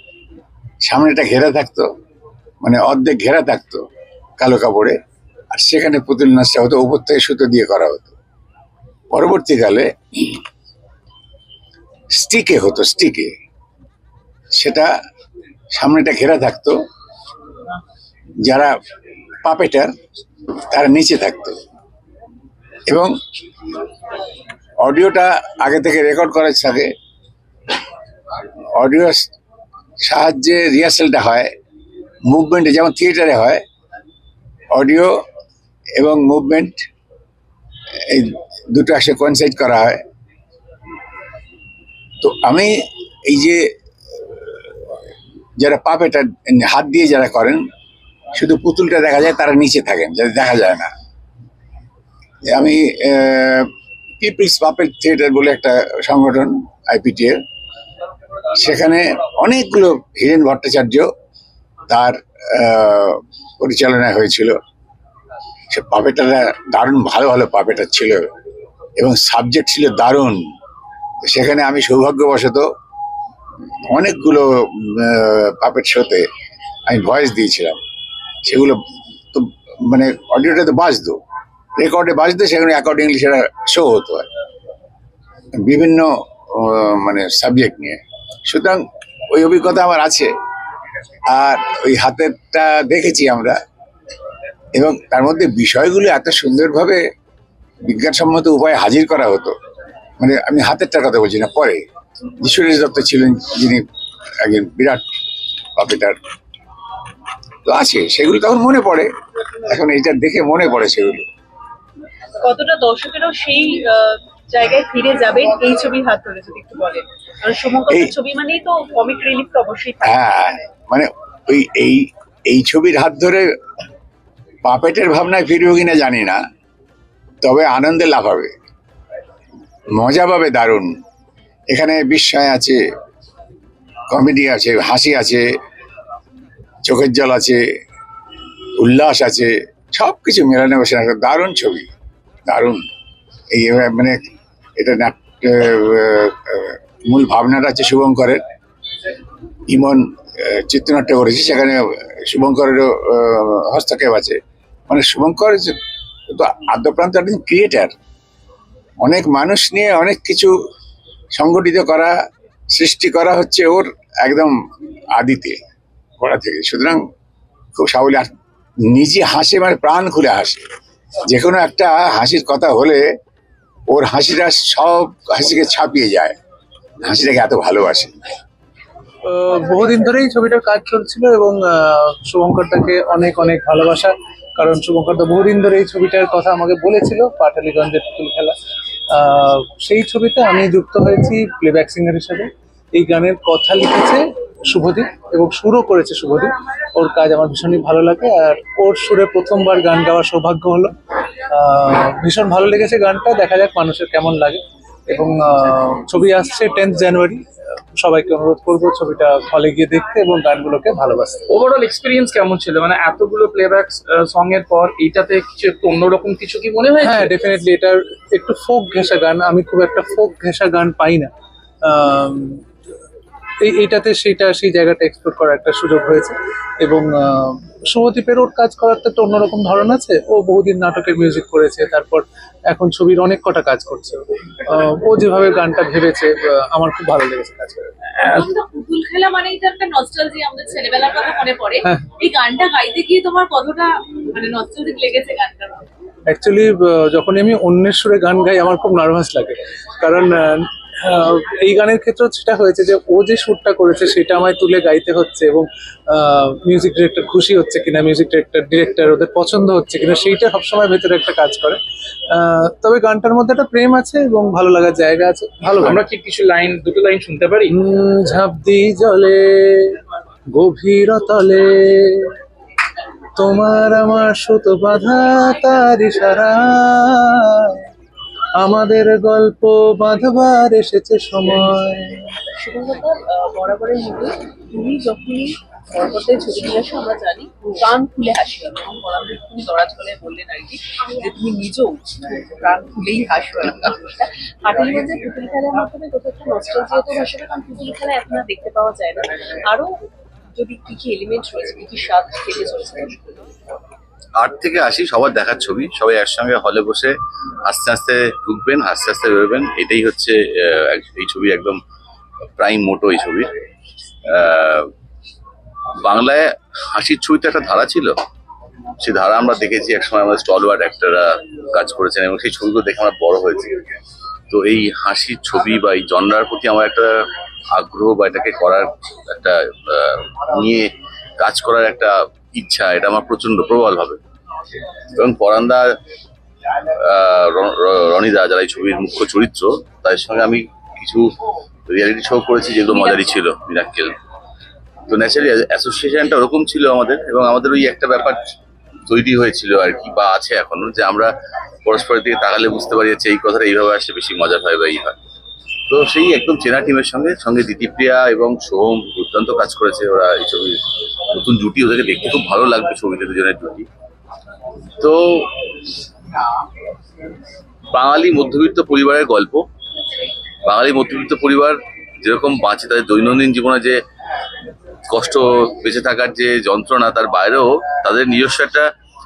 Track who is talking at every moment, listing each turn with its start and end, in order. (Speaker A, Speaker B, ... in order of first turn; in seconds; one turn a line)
Speaker A: 0.8-1.9
Speaker A: 2.6-3.8
Speaker A: 4.4-4.9
Speaker A: 5.5-8.1
Speaker A: 9.1-10.4
Speaker A: 12.1-13.3
Speaker A: 14.5-14.9
Speaker A: 15.7-16.8
Speaker A: 18.4-18.7
Speaker A: 19.4-19.9
Speaker A: 20.7-21.6
Speaker A: 22.9-23.1
Speaker A: 24.8-26.9
Speaker A: 28.8-29.3
Speaker A: 30.0-31.5
Speaker A: 32.3-33.6
Speaker A: 34.7-35.1
Speaker A: 36.0-36.8
Speaker A: 38.1-40.0
Speaker A: 42.2-42.7
Speaker A: 43.3-43.6
Speaker A: 45.6-47.6
Speaker A: 48.4-50.9
Speaker A: 52.5-53.7
Speaker A: 54.2-57.4
Speaker A: 58.5-61.1
Speaker A: 61.9-64.6
Speaker A: 65.7-68.2
Speaker A: 69.0-70.4
Speaker A: 71.2-72.7
Speaker A: 73.9-76.2
Speaker A: 76.9-77.8
Speaker A: 78.4-78.8
Speaker A: 79.3-81.2
Speaker A: 81.8-84.2
Speaker A: 85.6-90.3
Speaker A: 91.3-93.6
Speaker A: 94.7-97.0
Speaker A: 97.8-99.5
Speaker A: 100.2-101.8
Speaker A: 102.4-103.8
Speaker A: 104.4-105.0
Speaker A: 105.8-106.2
Speaker A: 107.6-109.1
Speaker A: 109.7-111.2
Speaker B: 112.4-120.2
Speaker A: 120.0-123.5
Speaker A: 124.6-126.4
Speaker A: 127.4-128.5
Speaker A: 130.0-130.9
Speaker A: 131.7-132.8
Speaker A: 134.1-135.5
Speaker A: 136.8-137.6
Speaker A: 138.8-141.9
Speaker A: 142.5-142.8
Speaker A: 143.5-144.2
Speaker A: 144.8-148.4
Speaker A: 149.7-154.4
Speaker A: 154.9-155.7
Speaker A: 156.3-157.9
Speaker A: 159.0-160.5
Speaker A: 161.3-162.1
Speaker A: 162.7-164.5
Speaker A: 165.2-165.6
Speaker A: 166.2-167.0
Speaker A: 167.7-168.3
Speaker A: 168.9-170.6
Speaker A: 171.3-173.1
Speaker A: 173.9-176.3
Speaker A: 177.0-178.1
Speaker C: 179.3-188.5
Speaker C: 189.1-194.2
Speaker C: 194.7-200.9
Speaker C: 201.5-207.4
Speaker C: 208.0-211.4
Speaker D: 211.5-217.6
Speaker C: 217.1-221.3
Speaker C: 221.9-222.6
Speaker C: 223.7-237.9
Speaker B: 242.2-243.3
Speaker C: 246.3-250.6
Speaker C: 251.1-261.8
Speaker C: 262.4-265.8
Speaker D: 265.7-267.8
Speaker C: 267.8-269.6
Speaker C: 270.6-271.7
Speaker C: 273.4-276.9
Speaker C: 278.6-282.0
Speaker B: 281.4-281.7
Speaker B: 282.5-299.9
Speaker B: 300.6-303.4
Speaker E: 304.4-307.1
Speaker E: 307.7-311.8
Speaker E: 312.6-313.5
Speaker E: 314.3-314.9
Speaker E: 316.0-318.1
Speaker E: 319.0-323.8
Speaker E: 324.5-327.1
Speaker E: 327.8-334.2
Speaker E: 335.1-335.8
Speaker E: 337.0-341.2
Speaker E: 341.9-344.1
Speaker B: 342.9-343.2
Speaker E: 345.1-348.4
Speaker E: 349.1-351.3
Speaker E: 351.9-355.1
Speaker E: 355.9-360.8
Speaker E: 361.3-363.9
Speaker E: 365.0-365.5
Speaker E: 367.9-369.6
Speaker E: 370.6-373.9
Speaker E: 375.1-378.9